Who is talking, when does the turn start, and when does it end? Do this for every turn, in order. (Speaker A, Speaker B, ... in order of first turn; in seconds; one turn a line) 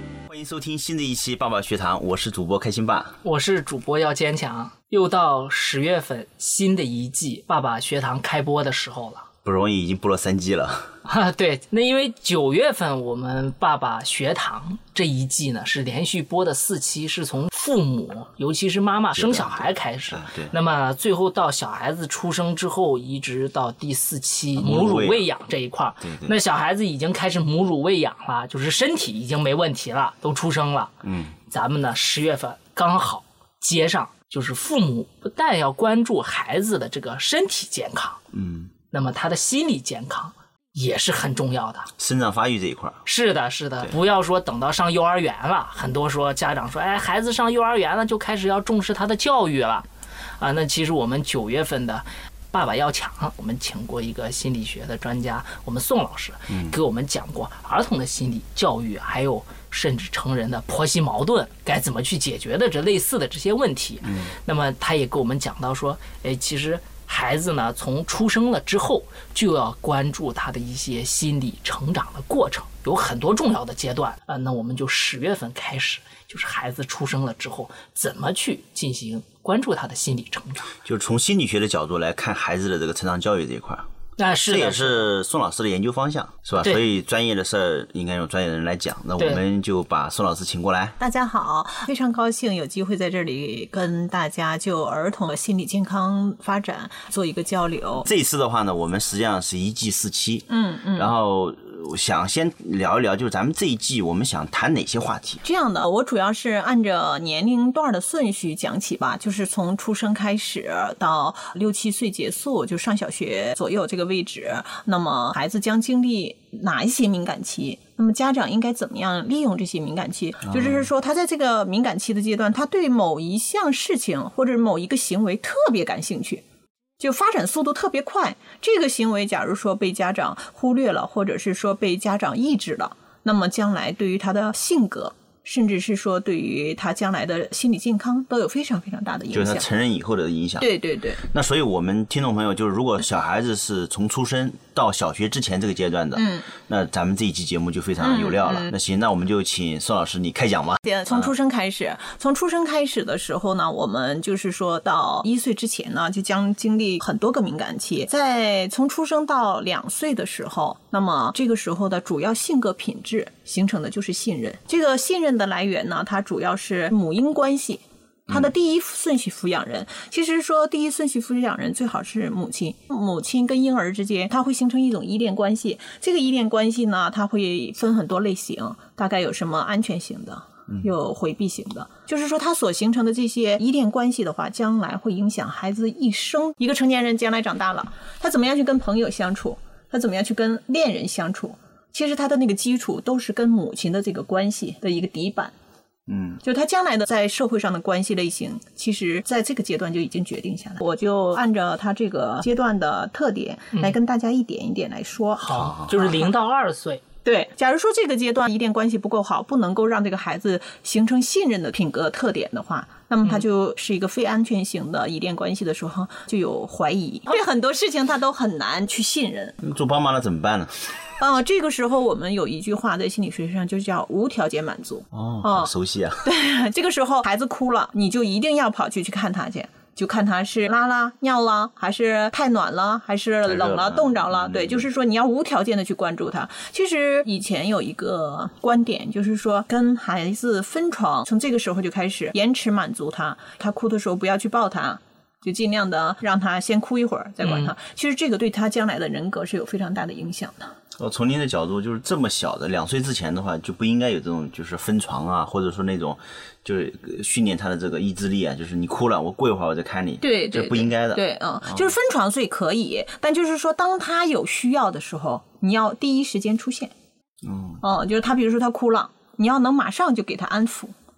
Speaker A: 0.3-3.2
Speaker B: 3.2-9.3
Speaker A: 9.4-10.9
Speaker B: 11.1-31.0
Speaker A: 19.1-20.6
Speaker A: 24.6-25.3
Speaker A: 26.0-26.3
Speaker A: 31.0-31.4
Speaker B: 31.5-38.2
Speaker A: 38.3-38.7
Speaker B: 38.9-41.9
Speaker A: 42.0-43.0
Speaker B: 43.1-49.9
Speaker B: 50.4-80.7
Speaker A: 56.5-56.8
Speaker A: 64.0-64.3
Speaker A: 80.8-83.9
Speaker B: 84.2-85.1
Speaker A: 84.5-91.0
Speaker C: 91.0-98.1
Speaker A: 98.0-105.4
Speaker C: 100.5-101.1
Speaker C: 105.4-126.4
Speaker A: 120.5-120.9
Speaker C: 127.0-139.7
Speaker A: 139.3-151.3
Speaker C: 140.6-141.2
Speaker C: 146.2-146.5
Speaker C: 148.0-148.7
Speaker C: 150.8-195.5
Speaker A: 196.1-196.4
Speaker C: 196.4-206.3
Speaker B: 205.4-207.0
Speaker A: 205.6-205.9
Speaker C: 207.2-219.6
Speaker A: 219.6-220.7
Speaker C: 221.2-225.7
Speaker A: 225.1-226.2
Speaker C: 226.2-250.7
Speaker A: 233.4-234.9
Speaker B: 247.4-247.7
Speaker A: 251.0-261.9
Speaker C: 260.2-266.9
Speaker A: 267.4-267.8
Speaker C: 267.8-270.9